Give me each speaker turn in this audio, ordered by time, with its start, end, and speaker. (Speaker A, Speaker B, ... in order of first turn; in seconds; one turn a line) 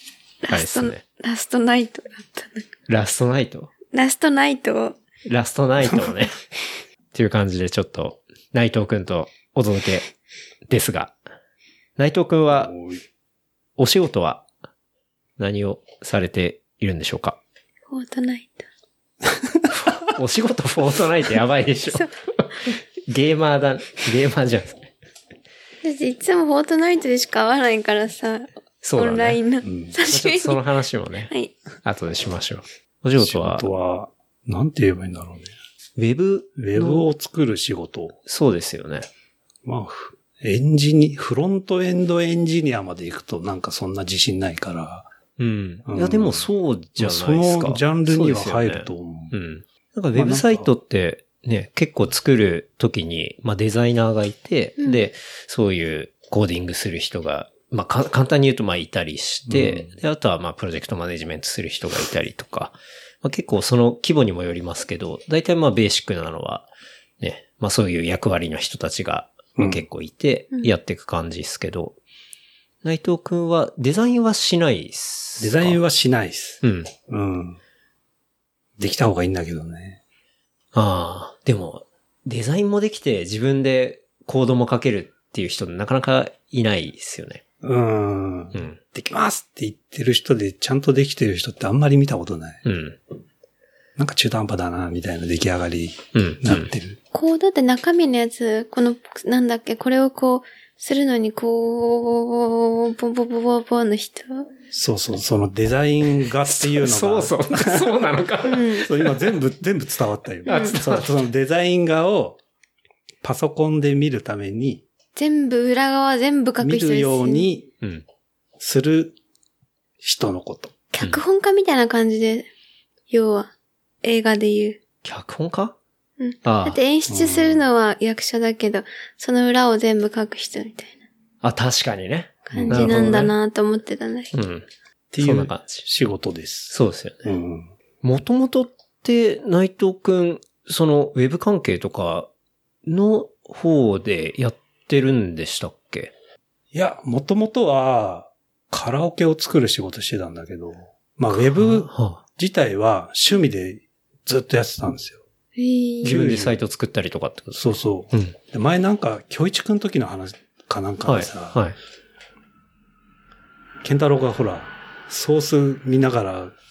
Speaker A: 0.4-2.7
Speaker B: 0.5-1.0
Speaker B: 2.9-3.7
Speaker A: 3.9-5.0
Speaker B: 5.2-6.3
Speaker B: 7.1-10.1
Speaker B: 10.7-11.2
Speaker B: 12.0-12.7
Speaker C: 12.5-13.0
Speaker B: 13.8-14.4
Speaker B: 15.4-17.4
Speaker A: 17.9-18.6
Speaker B: 19.9-24.9
Speaker A: 25.8-30.6
Speaker B: 28.8-29.4
Speaker C: 29.6-29.9
Speaker B: 30.0-31.3
Speaker B: 31.8-33.7
Speaker C: 33.2-35.5
Speaker B: 36.0-37.0
Speaker C: 36.5-38.2
Speaker B: 38.2-39.1
Speaker C: 39.6-45.1
Speaker B: 45.4-66.7
Speaker C: 45.9-49.3
Speaker C: 50.1-50.7
Speaker C: 59.5-59.9
Speaker B: 67.2-72.0
Speaker C: 69.5-69.8
Speaker B: 72.8-75.8
Speaker C: 75.4-77.6
Speaker B: 76.6-76.9
Speaker C: 78.8-80.0
Speaker B: 80.7-87.4
Speaker C: 87.6-92.6
Speaker B: 88.5-88.8
Speaker B: 92.6-93.0
Speaker C: 94.0-97.0
Speaker B: 96.1-96.7
Speaker A: 97.1-104.5
Speaker C: 104.7-107.9
Speaker B: 106.4-108.9
Speaker A: 108.4-108.9
Speaker C: 108.8-112.4
Speaker A: 110.5-110.8
Speaker B: 110.5-111.1
Speaker C: 113.2-114.8
Speaker A: 115.2-117.5
Speaker C: 116.6-117.7
Speaker C: 118.6-119.1
Speaker C: 120.0-120.7
Speaker A: 120.9-122.5
Speaker A: 123.1-123.5
Speaker A: 124.0-124.8
Speaker B: 125.0-125.8
Speaker A: 126.2-130.9
Speaker B: 126.4-126.8
Speaker C: 127.1-127.7
Speaker B: 131.4-133.3
Speaker A: 132.5-134.3
Speaker C: 132.5-133.3
Speaker B: 134.3-134.7
Speaker C: 135.1-137.7
Speaker B: 135.2-135.8
Speaker B: 136.7-137.3
Speaker B: 138.0-142.3
Speaker B: 142.8-146.1
Speaker C: 146.7-155.2
Speaker B: 151.3-152.2
Speaker A: 155.6-156.1
Speaker C: 156.0-156.6
Speaker B: 156.0-158.3
Speaker C: 157.5-161.6
Speaker B: 161.0-161.7
Speaker C: 163.8-166.5